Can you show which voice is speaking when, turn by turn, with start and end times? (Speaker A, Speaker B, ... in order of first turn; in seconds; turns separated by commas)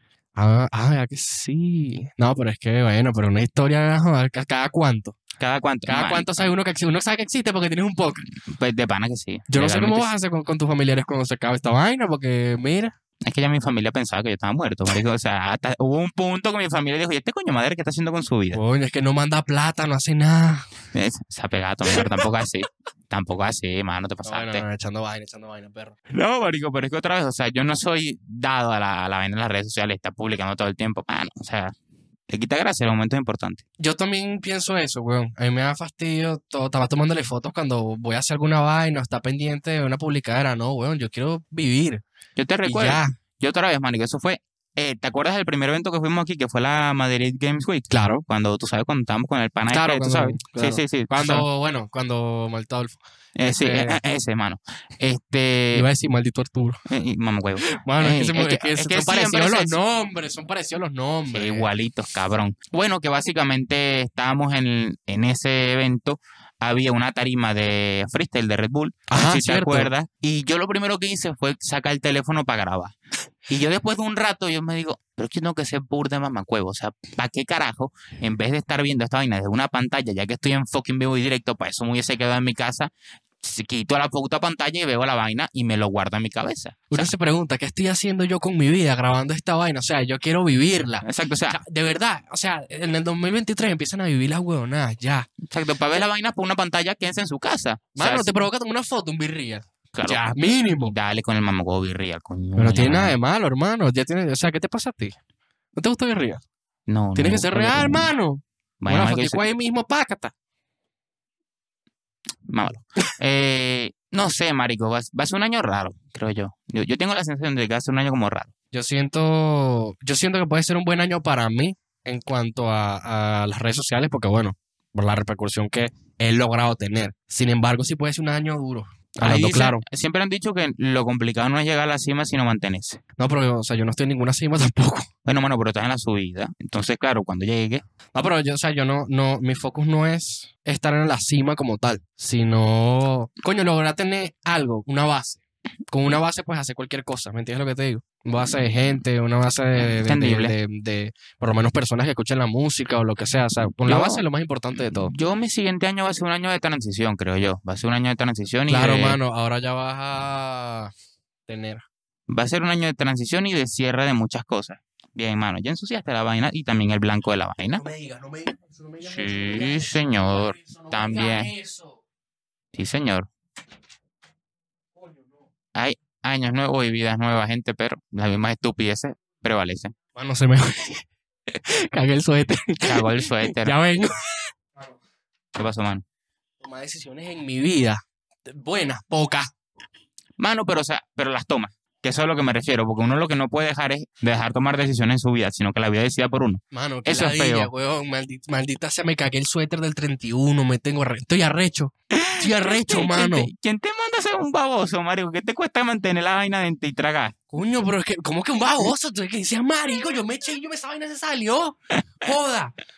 Speaker A: 0.4-5.2, Speaker B: 5.4-6.5, Speaker A: 5.9-8.2, Speaker B: 8.4-10.1, Speaker A: 9.5-12.9, Speaker B: 13.2-18.6, Speaker A: 18.5-20.7, Speaker B: 20.9-24.6, Speaker A: 21.9-22.2, Speaker A: 24.2-25.9, Speaker B: 26.1-31.8, Speaker B: 32.3-33.6, Speaker A: 33.8-42.0, Speaker B: 42.4-51.5, Speaker A: 42.6-43.1, Speaker A: 47.9-48.2, Speaker A: 49.7-54.0, Speaker B: 53.4-55.9, Speaker A: 55.7-56.8, Speaker B: 56.9-59.8, Speaker A: 57.6-61.7, Speaker B: 61.3-73.0, Speaker A: 69.1-69.9, Speaker B: 73.5-87.1, Speaker A: 86.9-95.3, Speaker B: 91.0-91.6, Speaker B: 95.5-98.4, Speaker A: 98.0-101.0, Speaker B: 99.9-103.2, Speaker A: 102.6-105.2, Speaker A: 105.8-106.4, Speaker B: 106.9-108.1, Speaker A: 107.2-110.3, Speaker B: 108.8-109.5, Speaker B: 112.5-118.5, Speaker A: 118.7-129.8, Speaker B: 129.2-133.0, Speaker A: 133.2-135.1, Speaker B: 135.2-137.8, Speaker A: 138.2-155.1, Speaker B: 149.8-150.6, Speaker B: 153.9-154.2, Speaker B: 154.9-159.2, Speaker A: 158.7-160.9, Speaker A: 161.5-161.8, Speaker B: 162.3-167.8, Speaker A: 167.8-172.0, Speaker B: 169.0-171.5, Speaker B: 172.8-173.3, Speaker A: 175.0-175.4, Speaker B: 175.8-179.9, Speaker A: 180.2-184.9, Speaker B: 182.8-183.8, Speaker B: 185.6-186.1, Speaker A: 186.6-189.5, Speaker B: 190.4-197.7, Speaker A: 196.7-203.5, Speaker B: 202.1-207.3, Speaker A: 207.5-212.8